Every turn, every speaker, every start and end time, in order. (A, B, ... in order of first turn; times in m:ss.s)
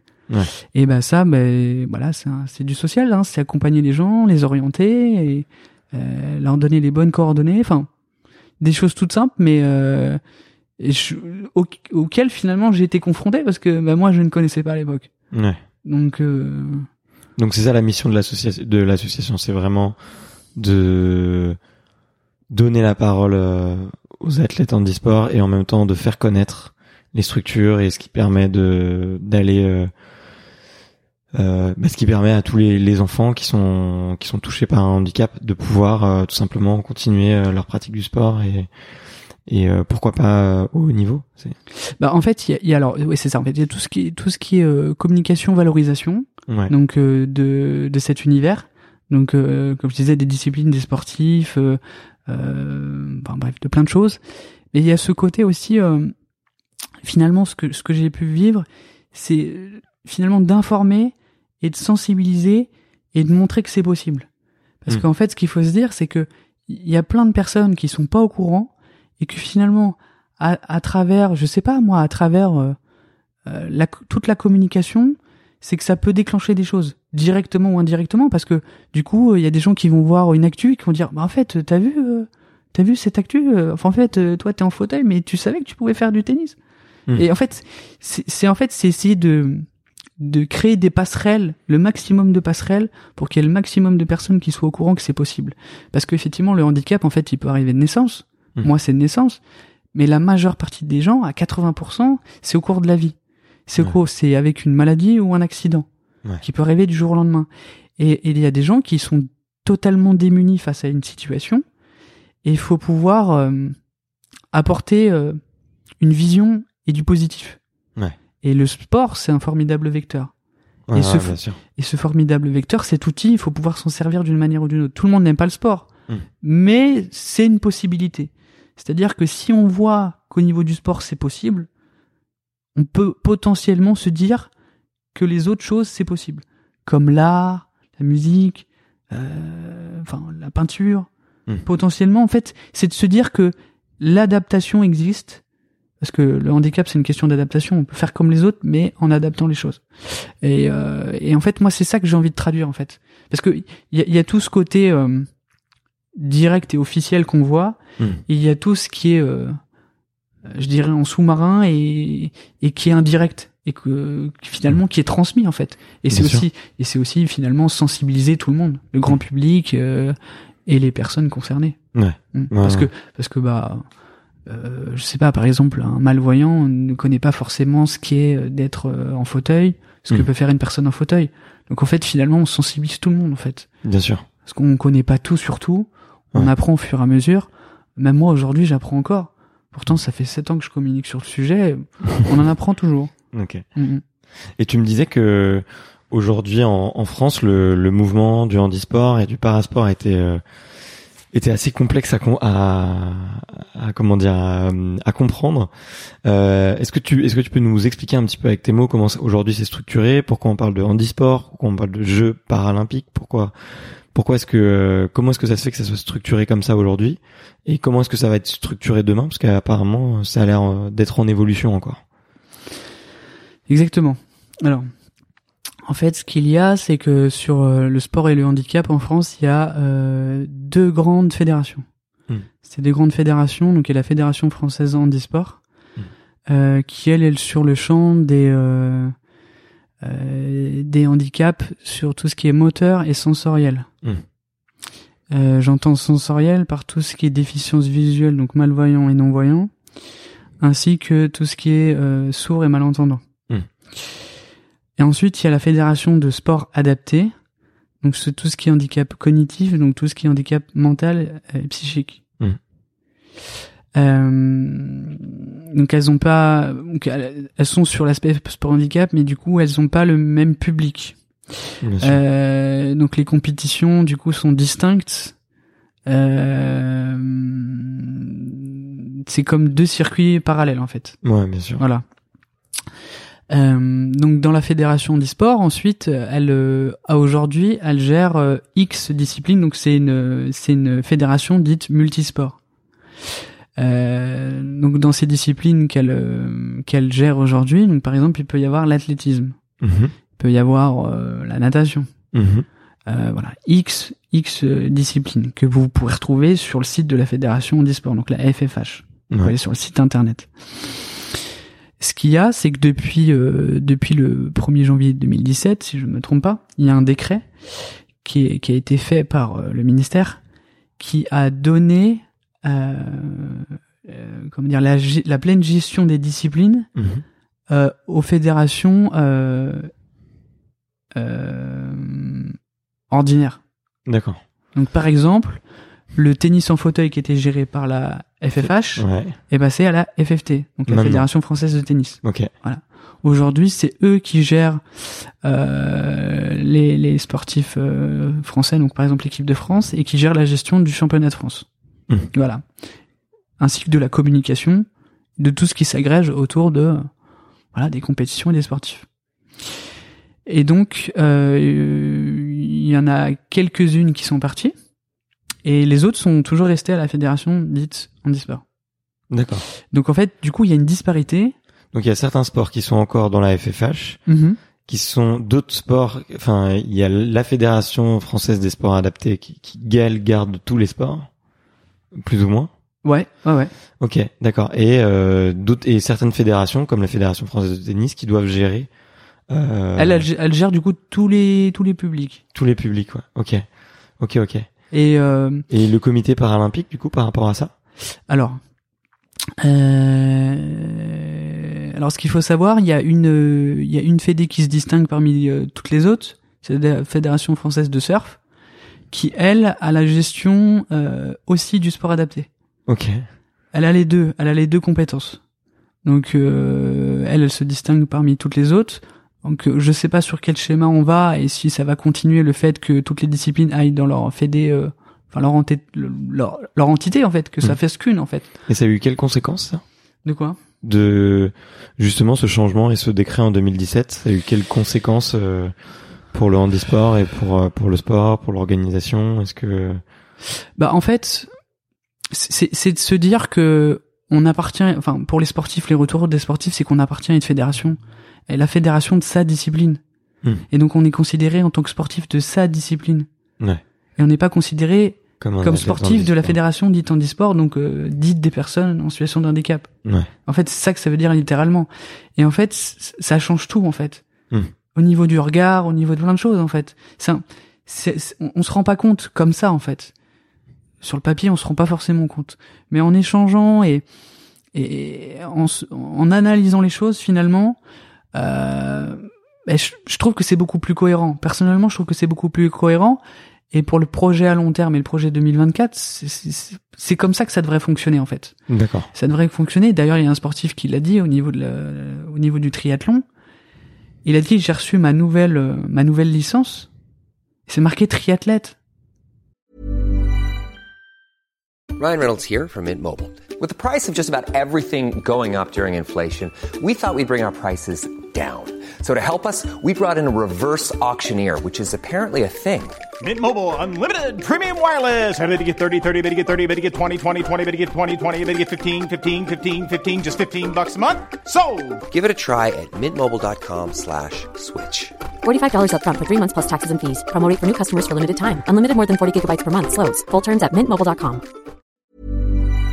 0:00.7-0:07.9 A
0:08.6-0:10.2 A
0:10.8-0:15.1 A
0:15.3-0:15.6 B
0:15.8-0:16.9 A
0:17.4-0:20.0 B
0:20.6-0:21.6 B
0:22.5-0:29.9 B
0:31.3-0:38.7 B
0:39.5-0:41.6 B
0:42.0-0:54.2 A
0:46.5-0:46.7 B
0:54.7-0:56.1 A
0:57.0-1:04.3 A
1:04.8-1:12.8 A
1:13.4-1:26.6 A
1:27.2-1:29.6 A
1:30.2-1:39.4 A
1:39.9-1:45.9 A
1:46.4-1:51.6 A
1:52.4-1:53.8 A
1:54.5-1:55.4 A
1:56.0-1:57.6 A
1:58.4-2:00.3 A
2:00.9-2:01.6 B
2:00.9-2:05.9 A
2:06.4-2:11.7 A
2:12.7-2:14.5 A
2:15.1-2:21.1 A
2:21.6-2:25.4 A
2:26.0-2:35.3 A
2:36.2-2:39.6 A
2:40.5-2:51.8 A
2:46.1-2:46.4 B
2:52.0-2:52.9 B
2:52.3-2:53.9 A
2:54.5-3:03.7 A
3:03.8-3:04.3 B
3:04.4-3:13.1 A
3:13.3-3:13.6 B
3:13.8-3:14.0 A
3:14.6-3:20.4 B
3:21.3-3:25.7 B
3:26.2-3:42.0 B
3:43.7-3:44.9 A
3:45.9-3:51.9 A
3:52.6-3:55.6 A
3:56.5-3:59.1 A
4:00.0-4:03.9 A
4:05.3-4:09.7 A
4:10.6-4:13.2 A
4:15.0-4:17.3 A
4:18.0-4:22.2 A
4:24.0-4:25.2 A
4:25.7-4:31.2 A
4:31.8-4:32.2 B
4:32.0-4:35.3 A
4:36.1-4:41.2 A
4:41.2-4:41.8 B
4:41.8-4:42.0 A
4:43.5-4:52.6 A
4:53.8-4:59.6 A
4:59.8-5:00.1 B
5:00.4-5:02.1 A
5:02.3-5:02.6 B
5:03.1-5:11.0 A
5:12.0-5:20.4 A
5:21.0-5:26.9 A
5:27.0-5:27.2 B
5:27.7-5:29.9 A
5:31.2-5:32.6 A
5:33.1-5:33.6 A
5:34.0-5:34.4 B
5:34.7-5:35.6 A
5:36.1-5:51.7 A
5:38.6-5:39.4 B
5:40.9-5:41.3 B
5:42.2-5:42.5 B
5:52.3-5:52.6 A
5:53.6-5:54.9 A
5:55.4-5:57.1 A
5:57.7-5:59.0 A
6:00.4-6:04.7 A
6:05.6-6:08.6 A
6:09.3-6:09.6 B
6:09.9-6:11.6 A
6:11.9-6:14.2 B
6:14.3-6:14.6 A
6:14.9-6:21.3 B
6:22.1-6:22.7 B
6:23.0-6:23.7 A
6:24.0-6:28.9 B
6:29.5-6:30.2 B
6:30.0-6:32.4 A
6:32.5-6:33.6 B
6:34.2-6:34.7 B
6:34.9-6:35.6 A
6:35.7-6:37.7 B
6:38.3-6:38.6 A
6:39.6-6:48.4 A
6:49.1-6:52.5 A
6:52.9-6:53.2 B
6:53.7-6:55.4 A
6:56.0-7:08.5 A
7:08.7-7:09.8 B
7:10.2-7:10.6 A
7:10.8-7:15.7 B
7:16.3-7:20.0 B
7:20.8-7:21.5 A
7:22.3-7:30.0 A
7:30.7-7:33.3 A
7:34.2-7:39.9 A
7:35.4-7:36.6 B
7:40.4-7:44.2 A
7:45.0-7:50.1 A
7:51.0-7:54.0 A
7:54.7-7:57.8 A
7:58.3-8:03.2 A
8:03.7-8:08.6 A
8:08.7-8:09.1 B
8:09.1-8:13.2 A
8:14.2-8:16.9 A
8:17.7-8:18.8 A
8:22.0-8:33.0 C
8:33.2-8:42.0 D
8:42.1-8:45.1 C
8:45.4-8:51.4 E